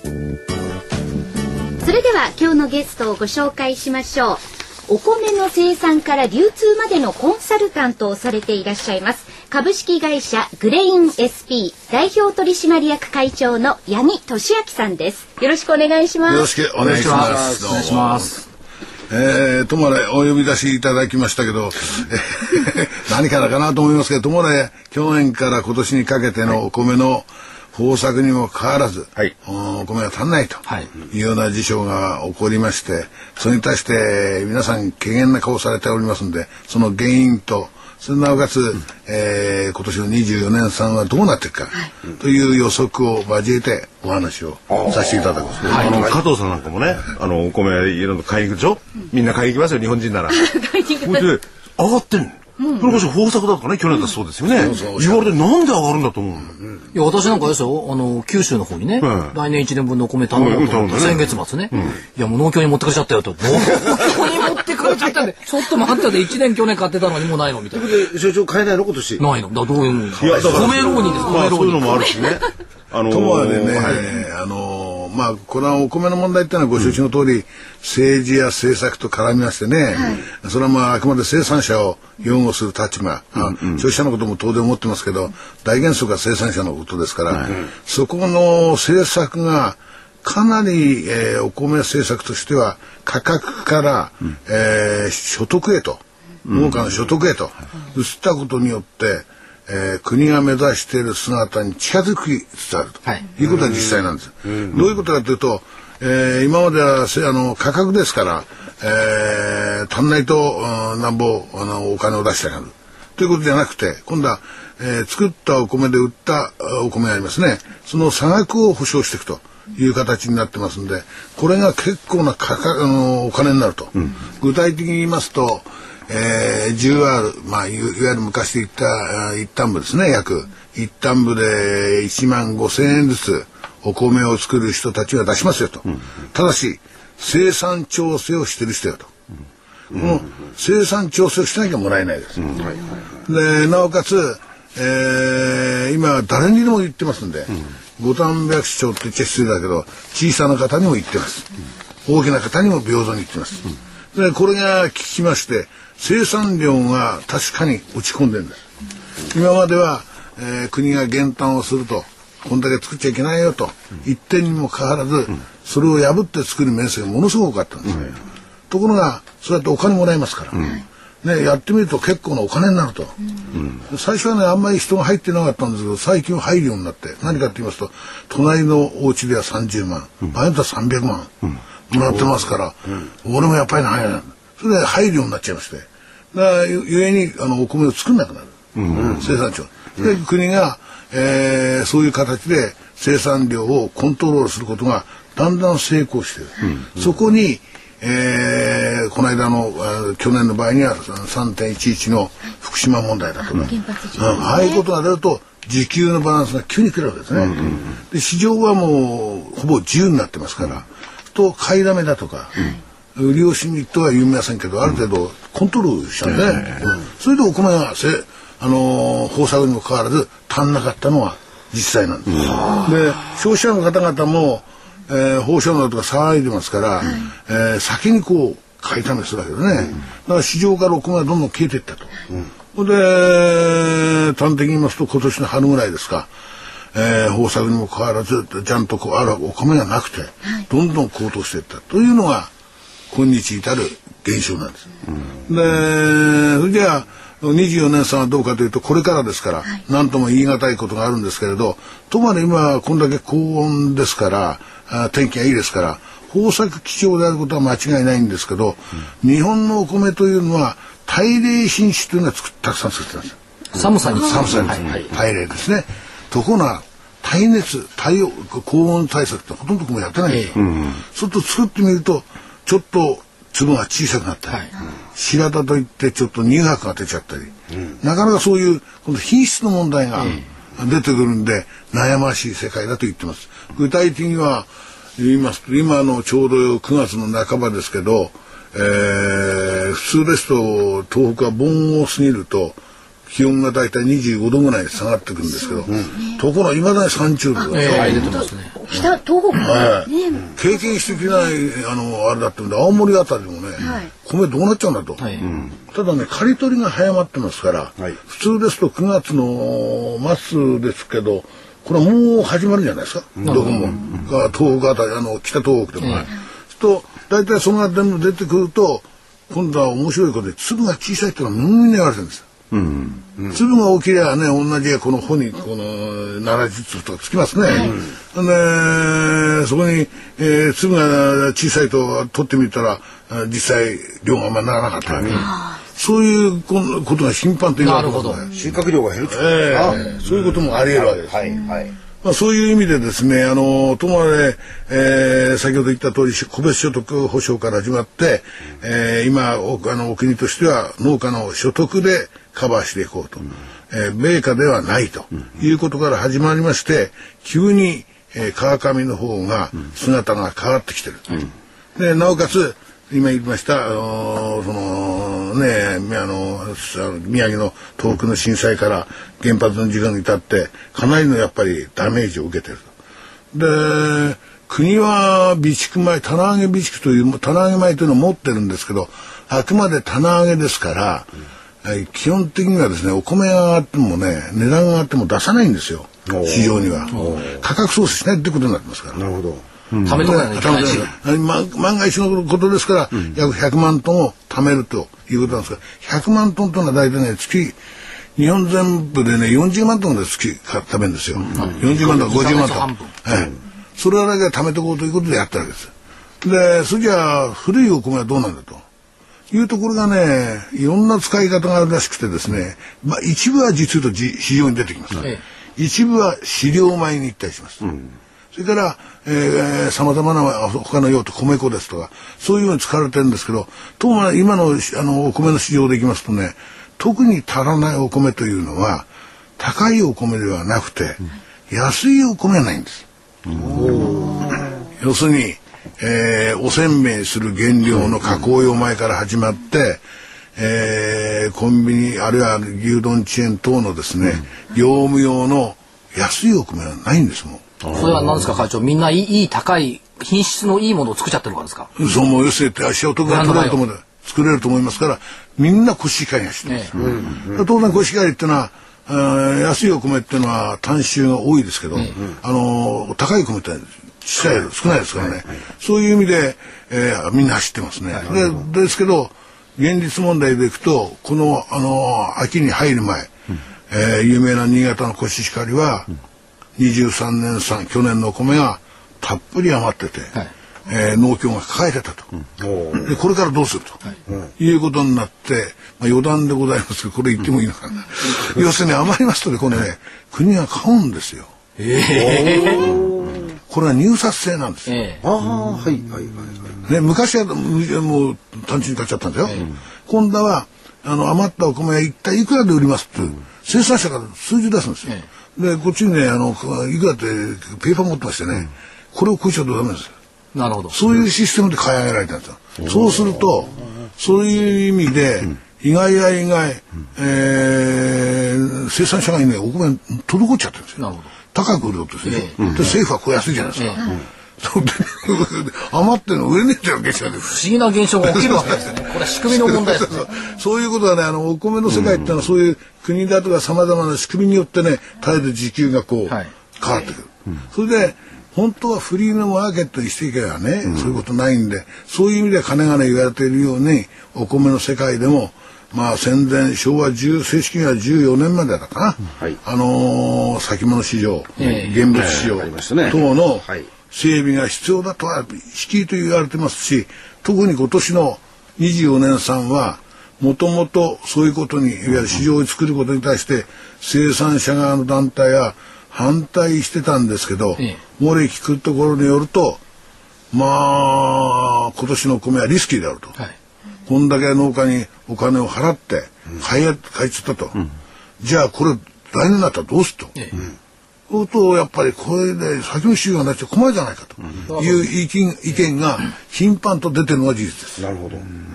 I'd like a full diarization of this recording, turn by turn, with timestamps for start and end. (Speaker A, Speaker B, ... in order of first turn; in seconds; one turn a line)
Speaker A: 1.8-16.5
Speaker B: 16.2-18.2
Speaker C: 16.8-18.4
Speaker D: 17.0-17.5
Speaker B: 19.1-46.1
Speaker D: 44.7-46.2
Speaker C: 45.6-46.0
Speaker E: 45.7-50.5
Speaker A: 50.3-51.3
Speaker E: 51.0-56.6
Speaker A: 52.6-52.9
Speaker B: 54.6-55.3
Speaker C: 56.9-68.1
Speaker E: 59.0-59.4
Speaker E: 60.3-62.0
Speaker D: 67.7-69.2
Speaker C: 69.2-72.1
Speaker E: 70.2-74.1
Speaker B: 73.1-139.1
Speaker E: 83.5-83.8
Speaker E: 96.5-96.8
Speaker B: 139.9-142.6
Speaker D: 142.5-142.9
Speaker B: 143.2-151.5
Speaker B: 152.0-158.6
Speaker B: 159.3-168.2
Speaker B: 168.7-181.3
Speaker B: 181.9-212.5
Speaker E: 188.8-189.2
Speaker D: 188.9-189.2
Speaker A: 203.5-204.8
Speaker B: 213.1-232.1
Speaker E: 216.5-216.9
Speaker B: 232.7-236.3
Speaker B: 236.9-242.5
Speaker B: 243.1-244.9
Speaker B: 245.4-263.4
Speaker C: 263.7-265.0
Speaker B: 264.1-298.3
Speaker C: 270.3-270.5
Speaker E: 270.6-270.9
Speaker C: 280.1-280.4
Speaker A: 295.6-296.4
Speaker A: 297.6-301.3
Speaker C: 297.7-298.7
Speaker D: 297.9-298.4
Speaker B: 299.5-305.2
Speaker A: 303.8-304.1
Speaker C: 305.2-305.5
Speaker E: 305.4-305.7
Speaker B: 305.9-322.5
Speaker D: 313.4-313.9
Speaker C: 313.4-313.8
Speaker C: 316.0-316.3
Speaker E: 322.7-323.2
Speaker B: 323.5-338.6
Speaker A: 327.6-327.9
Speaker D: 335.2-335.5
Speaker A: 335.3-335.8
Speaker C: 337.8-338.4
Speaker D: 338.5-341.9
Speaker B: 339.3-341.6
Speaker B: 342.2-372.9
Speaker B: 373.5-381.3
Speaker B: 381.8-389.2
Speaker D: 386.3-387.6
Speaker D: 389.1-389.6
Speaker E: 389.9-390.2
Speaker C: 390.0-391.1
Speaker B: 390.1-397.8
Speaker B: 398.4-408.8
Speaker C: 401.5-403.1
Speaker B: 409.5-417.9
Speaker B: 418.5-429.1
Speaker B: 429.6-433.1
Speaker D: 433.6-434.6
Speaker B: 433.8-434.1
Speaker B: 434.9-440.0
Speaker B: 440.6-447.7
Speaker E: 447.8-448.4
Speaker C: 447.9-451.9
Speaker B: 452.0-473.3
Speaker C: 453.2-453.8
Speaker C: 456.6-456.9
Speaker D: 456.9-457.6
Speaker B: 473.9-476.1
Speaker B: 476.8-480.3
Speaker B: 480.9-482.3
Speaker D: 482.6-483.1
Speaker B: 483.0-484.0
Speaker B: 484.6-491.5
Speaker C: 491.8-492.9
Speaker D: 492.1-493.4
Speaker B: 493.7-494.9
Speaker C: 494.9-495.2
Speaker D: 495.2-496.8
Speaker B: 496.9-510.1
Speaker C: 510.5-510.9
Speaker B: 510.9-521.0
Speaker C: 521.0-521.3
Speaker B: 521.5-527.6
Speaker C: 522.2-522.6
Speaker C: 523.8-524.0
Speaker C: 527.4-530.3
Speaker B: 528.2-569.8
Speaker C: 551.6-552.0
Speaker E: 552.1-552.5
Speaker D: 552.3-553.9
Speaker B: 570.5-573.4
Speaker B: 574.1-577.8
Speaker B: 578.4-580.3
Speaker B: 581.3-588.0
Speaker C: 584.7-585.1
Speaker D: 588.0-588.5